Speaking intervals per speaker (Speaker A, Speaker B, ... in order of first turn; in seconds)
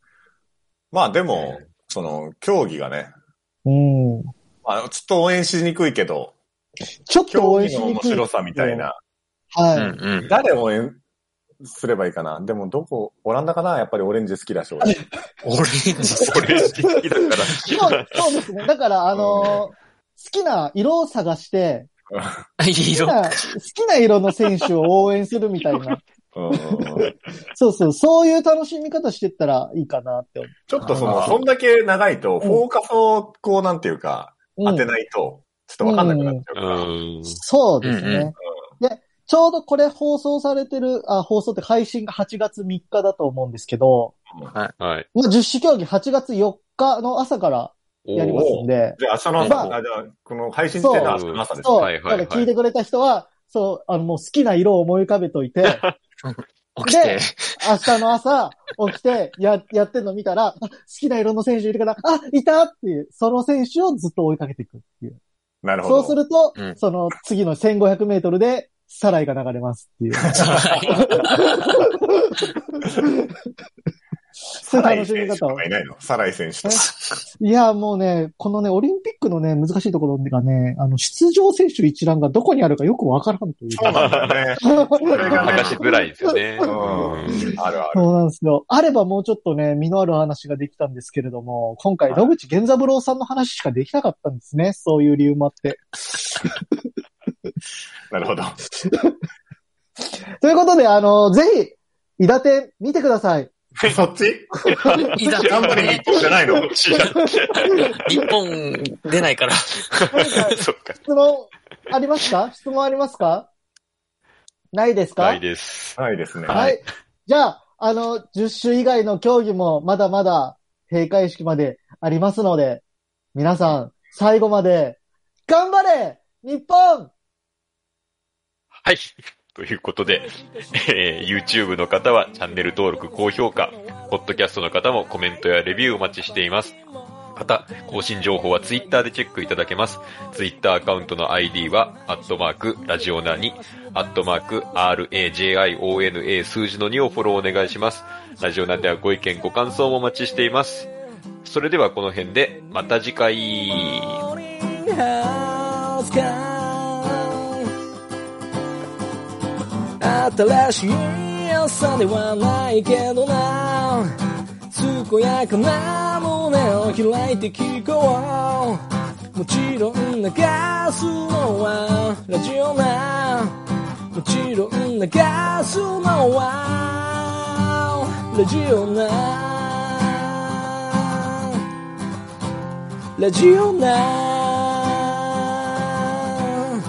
Speaker A: 0.9-3.1, 4.6-6.3, 7.3-9.0, 10.2-11.0, 11.6-15.0, 19.1-19.6, 22.1-22.4, 26.3-27.1, 30.7-36.9, 48.3-51.8, 65.6-66.2, 74.6-76.9, 83.7-85.8, 86.6-88.1, 98.1-98.6, 103.8-104.6, 105.4-106.7, 116.0-116.6
Speaker B: 1.3-1.7, 16.2-18.2, 31.1-31.4, 36.5-37.4, 44.8-45.1, 48.0-48.6, 50.9-52.5, 55.6-55.9, 83.9-84.5, 85.1-87.5, 104.7-107.9, 109.9-111.0, 115.2-116.8, 128.8-136.8, 137.3-150.9, 151.4-154.3
Speaker C: 3.6-4.3, 7.1-8.8, 9.5-10.0, 17.6-21.9, 22.9-31.3, 34.6-34.9, 35.8-36.4, 37.3-44.1, 45.1-49.7, 50.7-55.8, 56.9-65.2, 65.8-73.3, 74.6-75.6, 77.4-84.0, 84.6-96.6, 98.8-99.1, 100.4-103.5, 106.5-107.2, 110.1-113.5, 114.7-115.4, 116.5-122.8, 123.3-127.1
Speaker D: 9.7-10.3, 15.4-16.7, 22.6-23.5, 30.9-31.4, 37.8-38.3, 49.4-49.6, 56.2-57.9, 70.3-71.5, 76.8-77.2, 105.2-106.2, 108.0-109.8
Speaker E: 132.6-133.9, 135.9-136.7, 143.1-143.8, 154.5-157.7, 160.0-164.1, 164.7-168.8, 169.3-173.6, 174.1-181.3, 183.2-186.2